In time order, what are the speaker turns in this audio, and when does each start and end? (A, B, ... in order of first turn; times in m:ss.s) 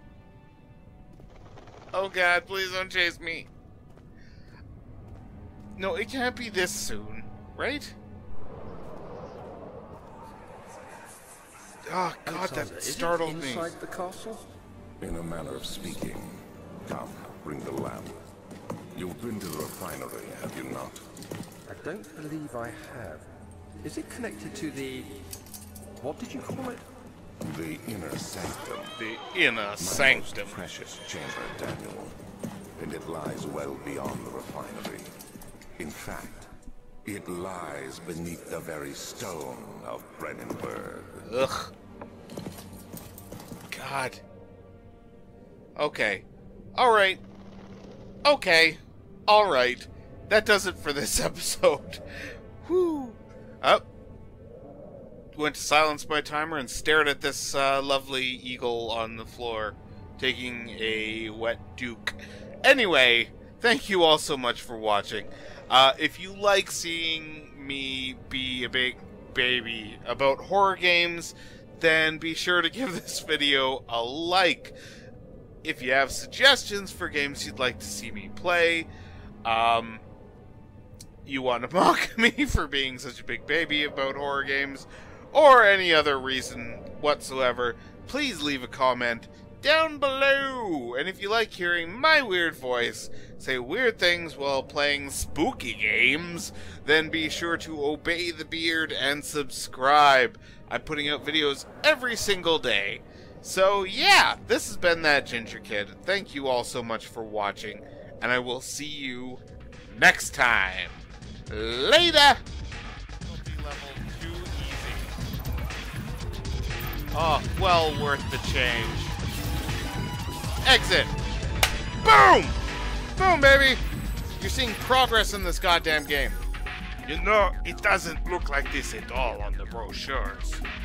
0:01.9-0:03.5 A
0:05.8-0:08.0 A
0:11.9-0:13.7 A
0:12.2-0:14.5 B
0:15.0-0:18.2 C
0:18.9-0:21.0 C
0:21.7-0:23.3 B
0:23.8-0:25.1 B
0:26.0-0:26.8 B
0:27.4-0:28.9 C
0:29.0-0:30.6 A
0:29.8-0:32.1 C
0:32.8-0:35.1 C
0:35.8-0:36.5 C
0:37.0-0:41.3 C
0:41.2-0:41.7 A
0:43.7-0:44.2 A
0:45.8-0:47.2 A
0:48.2-0:52.0 A
0:52.6-0:53.8 A
0:55.4-1:14.8 A
1:15.6-1:18.9 A
1:19.4-1:20.0 A
1:21.2-1:51.0 A
1:51.5-1:52.4 A
1:53.2-1:55.1 A
1:57.1-1:59.2 A
2:00.6-2:01.1 A
2:02.0-2:02.6 A
2:03.2-2:03.8 A
2:04.4-2:06.4 A
2:07.0-2:10.6 A